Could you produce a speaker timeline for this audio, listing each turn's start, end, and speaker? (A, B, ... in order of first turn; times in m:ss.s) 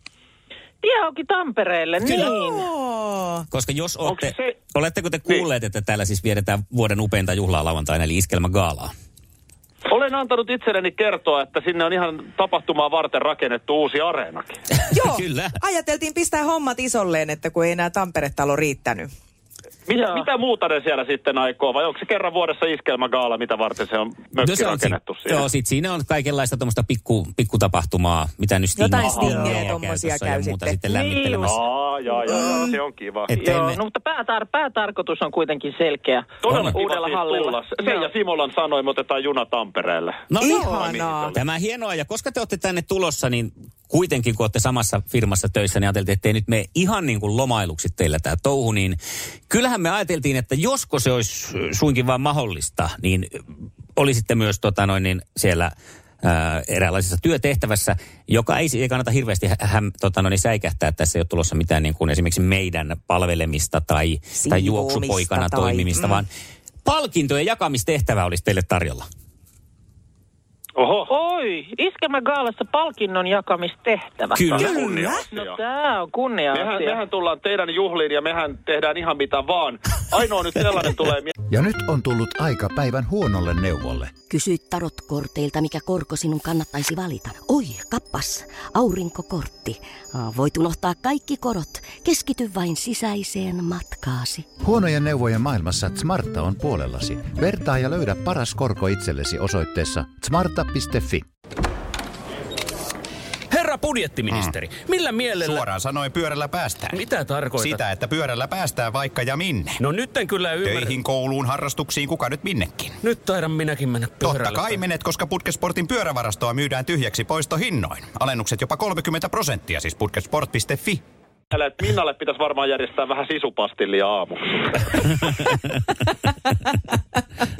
0:00.8-0:02.6 A
0:02.0-0:03.4 B
0:02.0-0:02.3 C
0:03.5-0:08.9 C
0:04.0-0:04.5 D
0:09.9-0:14.6 D
0:14.8-0:15.6 C
0:14.9-0:19.1 B
0:19.9-0:25.4 D
0:24.4-0:31.6 C
0:28.8-0:30.8 B
0:29.0-0:29.4 D
0:30.9-0:31.5 A
0:31.5-0:33.3 D
0:32.2-0:32.8 B
0:33.3-0:33.8 C
0:33.3-0:38.1 A
0:36.4-0:41.4 D
0:36.5-0:36.8 C
0:40.3-0:40.8 C
0:40.4-0:41.3 B
0:41.3-0:53.4 C
0:53.9-1:06.3 C
1:04.3-1:06.2 B
1:06.8-1:09.1 C
1:10.8-1:11.1 D
1:11.1-1:14.6 A
1:14.3-1:14.7 C
1:14.5-1:15.6 D
1:14.5-1:15.2 B
1:15.3-1:17.0 A
1:16.5-1:21.3 D
1:21.5-1:24.1 E
1:24.3-1:34.5 F
1:34.6-1:41.3 E
1:43.5-1:45.7 G
1:44.3-1:44.6 H
1:45.4-1:49.8 H
1:46.9-1:47.8 G
1:49.8-1:51.0 G
1:50.6-1:53.0 H
1:53.0-1:54.8 G
1:54.2-2:01.0 H
2:01.5-2:05.1 D
2:06.6-2:06.9 B